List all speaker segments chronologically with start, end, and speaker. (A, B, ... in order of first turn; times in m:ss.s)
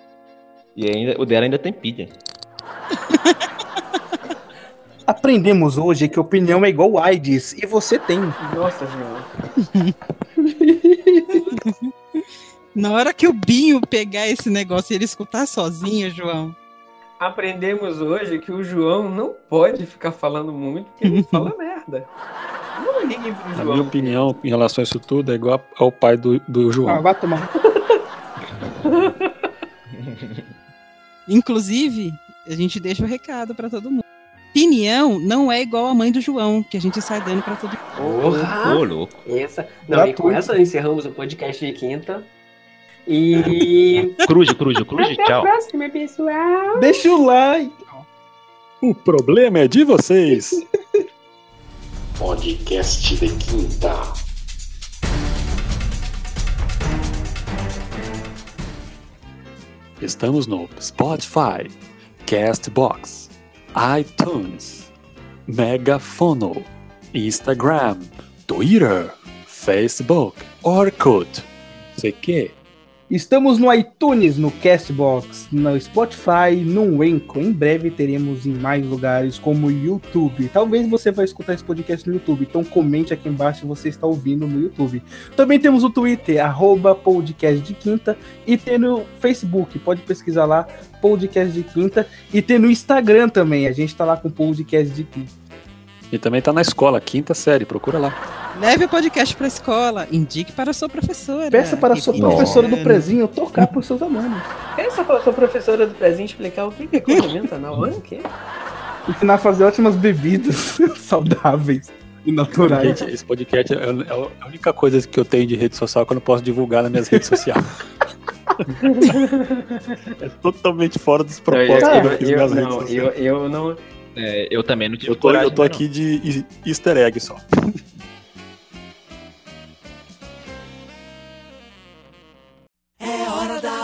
0:00.8-0:02.2 A
0:03.1-0:03.4 B
0:05.1-0:08.4 C
0:08.4-0:09.3 D
0:09.6-0:09.9 B
0:10.4-0:11.6 C
0:11.3-0:11.9 B
0:12.8-0:16.6 B
0:17.2-0:22.1 D
0:21.1-0:21.5 B
0:22.8-0:24.3 D
0:23.6-0:27.1 E
0:26.9-0:27.5 C
0:27.6-0:28.0 D
0:28.8-0:29.4 D
0:29.9-0:30.5 A
0:31.3-0:37.9 B
0:38.0-0:42.3 D
0:38.2-0:39.2 A
0:39.9-0:40.5 C
0:43.1-0:44.1 D
0:44.2-0:45.5 A
0:45.0-0:47.0 D
0:46.8-0:48.0 C
0:48.8-0:50.6 E
0:52.2-0:54.1 F
1:00.0-1:04.9 E
1:05.5-1:12.5 E
1:13.1-1:35.3 C
1:36.1-1:38.2 E
1:38.5-1:43.1 B
1:41.5-1:44.5 C
1:42.2-1:42.5 F
1:42.3-1:42.6 A
1:44.8-1:48.3 D
1:49.1-1:53.0 C
1:52.6-1:57.6 E
1:58.8-2:00.0 D
2:00.2-2:03.1 E
2:01.5-2:03.8 D
2:01.8-2:02.2 C
2:04.2-2:05.8 A
2:05.0-2:07.4 E